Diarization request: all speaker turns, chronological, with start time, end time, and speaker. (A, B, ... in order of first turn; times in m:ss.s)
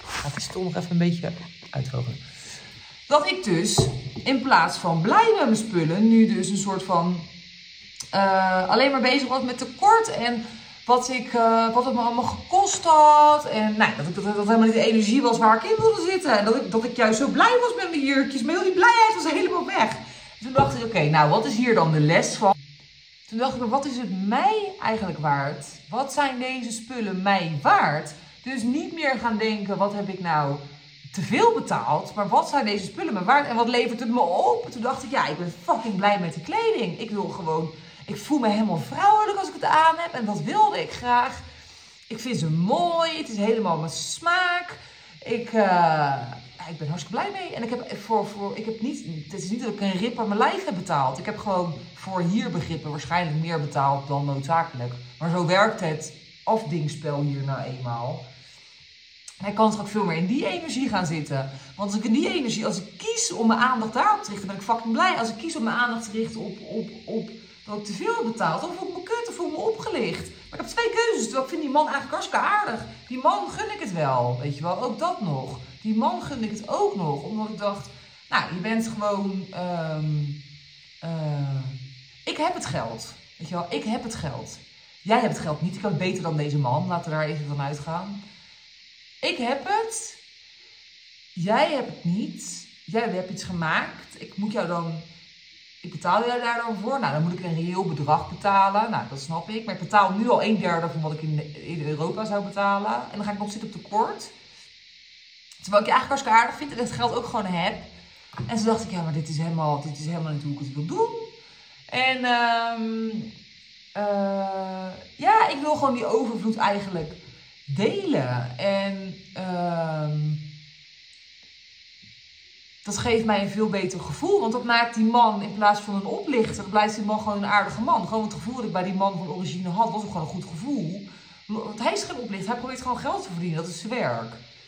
0:00.2-0:02.2 A
0:03.1-0:07.3 A
0:08.1-0:22.6 A
0:23.3-0:41.4 A
0:42.1-0:58.2 A
0:59.4-1:20.4 A
1:21.0-1:28.2 A
1:29.2-1:30.2 A
1:31.3-1:35.0 A
1:35.8-1:44.3 A
1:45.6-1:47.9 A
1:48.4-1:51.3 A
1:51.9-1:53.3 A
1:53.9-2:00.4 A
2:02.8-2:14.4 A